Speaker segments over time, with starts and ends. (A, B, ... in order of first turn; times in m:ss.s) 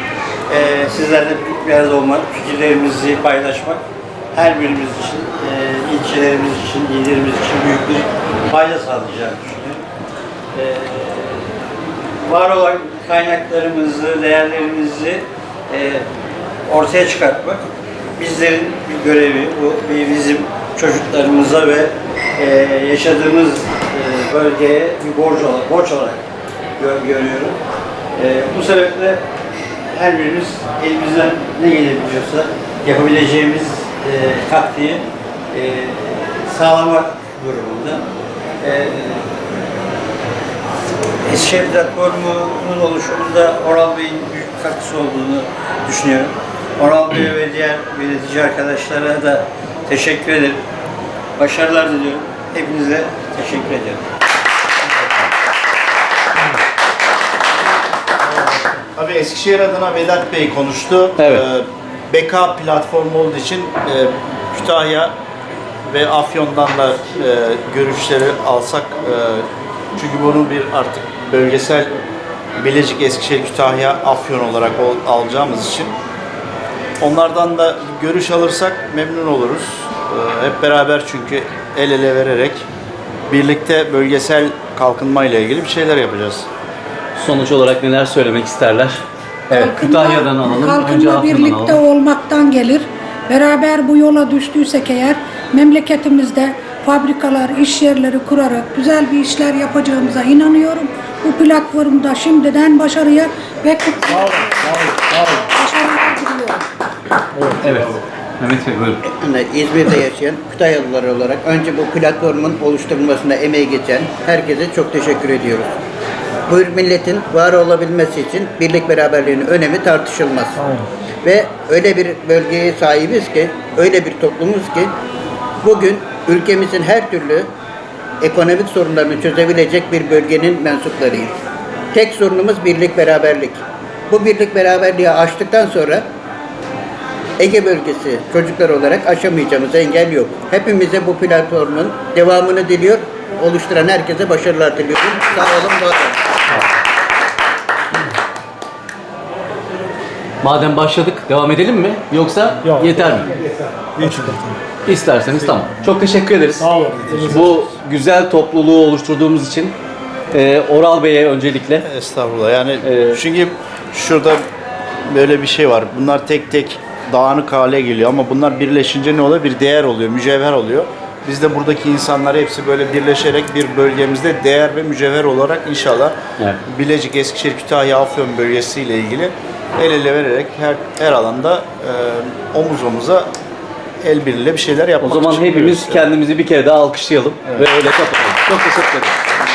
0:00.5-0:09.8 A
0:10.5-0:11.5 A
0:12.2-0:16.0 A
0:16.7-0:17.6 A
0:18.2-0:26.2 A
0:26.8-0:27.6 A
0:28.1-0:29.2 A
0:29.9-0:38.0 A
0:38.6-0:39.3 A
0:41.2-0:50.6 A
0:51.4-0:54.0 A
0:59.0-1:05.1 B
1:01.2-1:01.4 C
1:05.9-1:11.9 B
1:12.6-1:16.0 B
1:17.0-1:22.6 B
1:23.3-1:26.5 B
1:27.2-1:31.8 C
1:29.5-1:46.6 D
1:47.6-1:49.0 C
1:49.2-1:55.8 E
1:56.5-2:04.9 E
2:05.6-2:07.5 E
2:08.2-2:11.3 E
2:11.9-2:16.0 E
2:17.4-2:26.2 E
2:30.4-2:33.3 C
2:34.0-2:39.7 C
2:36.8-2:37.6 B
2:40.3-2:41.8 C
2:41.8-2:44.4 B
2:42.8-2:43.2 C
2:45.0-2:56.1 B
2:56.7-3:03.3 B
3:04.0-3:06.1 B
3:05.0-3:09.2 C